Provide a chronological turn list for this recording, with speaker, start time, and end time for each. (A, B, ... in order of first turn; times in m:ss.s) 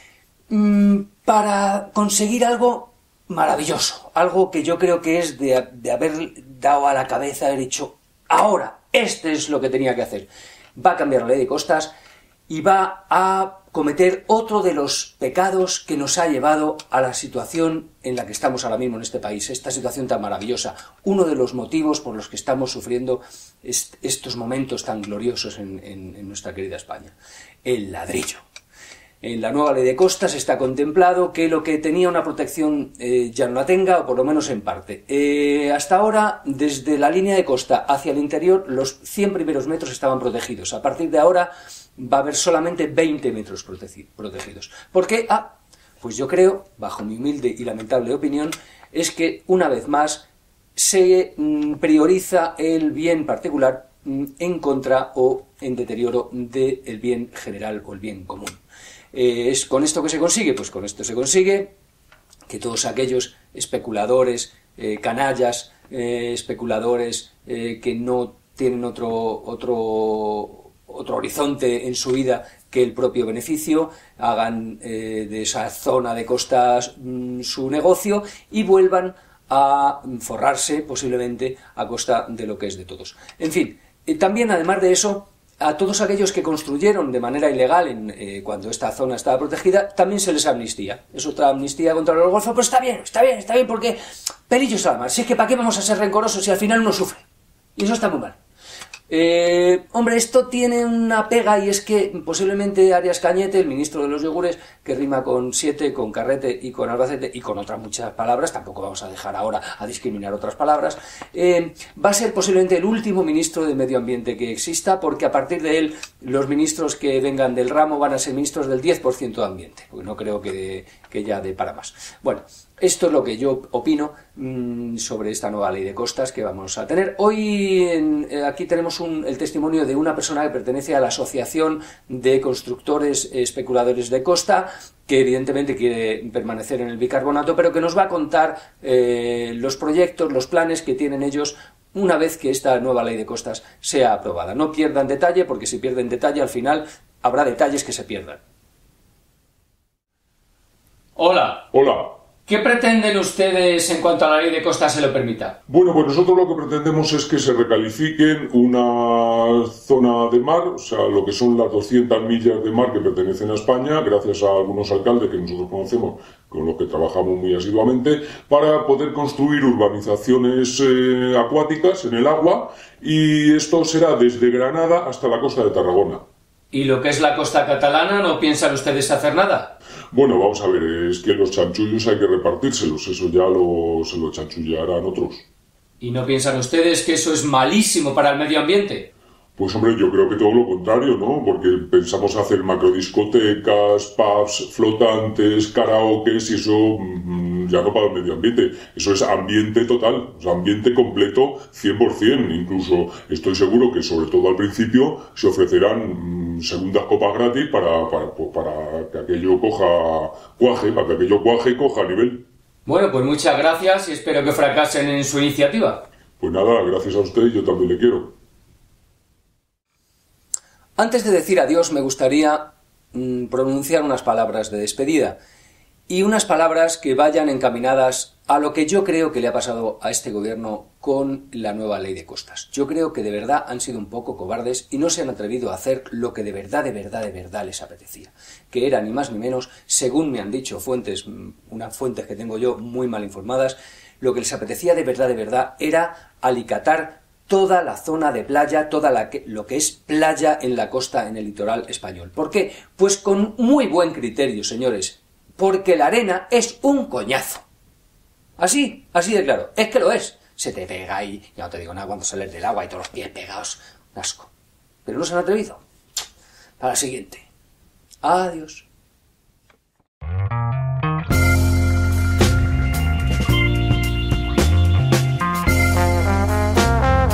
0:00.5-0:11.9 A
0:12.5-0:28.4 A
0:29.2-0:58.6 A
0:59.1-1:01.7 A
1:02.5-1:37.2 A
1:37.8-1:38.4 A
1:39.1-2:28.4 A
2:31.2-2:31.7 A
2:31.7-2:32.0 B
2:32.4-2:35.6 A
2:35.7-2:56.2 B
2:56.7-2:59.8 A
3:00.1-3:05.5 B
3:06.0-3:09.1 A
3:09.6-3:32.4 B
3:32.8-3:36.0 A
3:36.4-3:38.3 B
3:41.0-3:45.4 A
3:46.1-4:17.6 A
4:18.6-4:24.5 A
4:25.0-4:25.8 A
4:26.8-4:27.4 A
4:28.2-4:28.9 A